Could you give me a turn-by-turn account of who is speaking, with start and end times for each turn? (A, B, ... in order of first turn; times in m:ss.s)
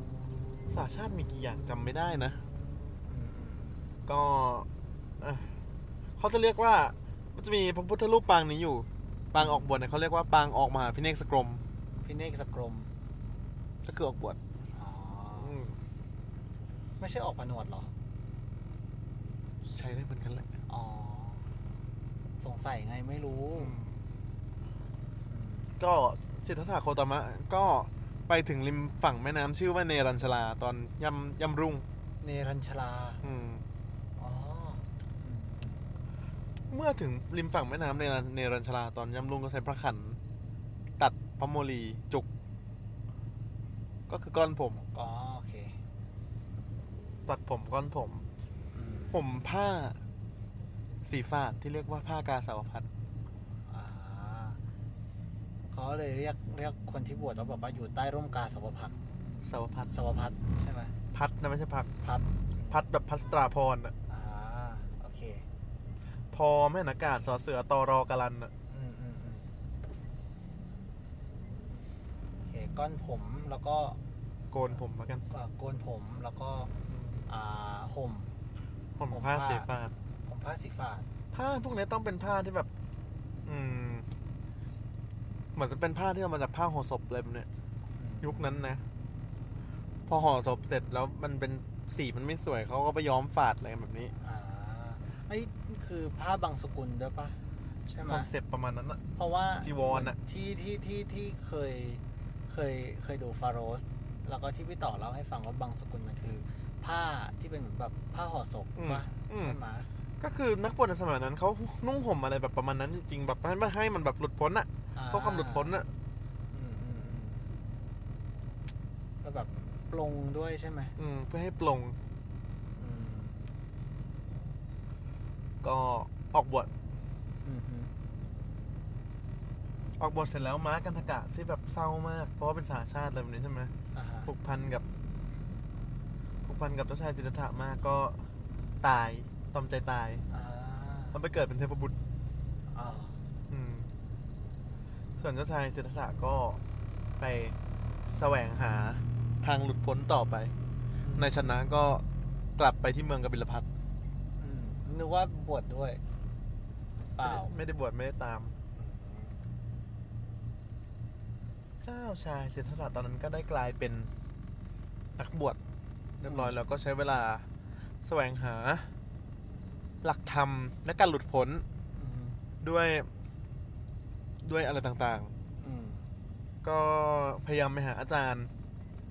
0:00.7-0:02.4 A
0:03.1-0:03.9 B
0:04.1-0:04.7 A
0:05.2-0:05.5 A
0:06.2-0:11.6 A
0:09.4-0:09.6 B
0:12.0-0:12.9 B
0:13.9-0:14.4 A
0:14.8-0:15.6 B
0:15.4-0:15.8 A
0:17.0-0:17.9 B
0:19.7-0:20.5 A
0:20.7-0:21.5 B
0:22.4-0:23.8 B
0:23.6-0:24.0 A
0:25.3-0:25.7 B
0:25.8-0:31.9 A
0:32.2-0:33.2 B
0:33.2-0:33.6 A
0:34.2-0:35.8 B
0:36.7-0:40.2 A
0:41.0-0:42.3 A
0:44.1-0:44.8 A
0:44.8-0:45.8 B
0:47.3-0:48.2 A
0:48.7-0:49.2 B
0:49.1-0:50.0 A
0:51.0-0:52.9 A
0:53.7-0:54.6 B
0:55.7-0:58.9 B
0:59.4-0:59.9 A
0:59.9-1:00.9 B
1:01.1-1:01.9 A
1:02.0-1:02.8 B
1:02.7-1:03.9 A
1:04.1-1:05.4 B
1:06.3-1:08.5 A
1:08.7-1:09.5 B
1:12.4-1:14.0 B
1:14.5-1:15.2 A
1:15.3-1:16.7 B
1:16.9-1:17.2 A
1:17.3-1:18.3 B
1:19.0-1:19.9 A
1:19.1-1:19.7 B
1:20.2-1:21.1 B
1:21.3-1:22.7 A
1:23.5-1:24.1 A
1:25.6-1:27.5 A
1:28.0-1:28.8 B
1:28.2-1:28.8 A
1:30.1-1:34.1 A
1:34.2-1:38.3 B
1:38.0-1:39.0 A
1:39.2-1:49.9 B
1:39.6-1:40.2 A
1:48.8-1:49.6 A
1:50.2-1:55.9 A
1:55.0-1:55.8 B
1:56.5-1:57.5 B
1:59.2-2:01.0 B
2:01.0-2:02.0 A
2:02.8-2:03.5 B
2:05.6-2:06.7 A
2:07.4-2:07.9 B
2:10.0-2:13.7 A
2:13.9-2:14.3 B
2:14.3-2:14.8 A
2:16.5-2:18.2 A
2:18.8-2:20.2 A
2:20.3-2:21.2 B
2:21.1-2:22.0 A
2:22.7-2:23.2 B
2:23.5-2:23.9 A
2:25.2-2:26.6 A
2:27.2-2:30.5 A
2:31.0-2:31.6 B
2:31.2-2:32.0 A
2:32.6-2:33.7 A
2:34.4-2:36.0 B
2:37.2-2:37.6 B
2:37.2-2:38.5 A
2:38.8-2:39.4 B
2:41.8-2:44.1 A
2:45.2-2:45.6 A
2:46.2-2:47.4 A
2:46.3-2:46.5 B
2:48.0-2:48.9 A
2:50.0-2:51.6 A
2:52.0-2:52.4 B
2:52.6-2:53.1 A
2:54.4-2:55.3 A
2:55.6-2:56.1 B
2:56.6-2:58.5 A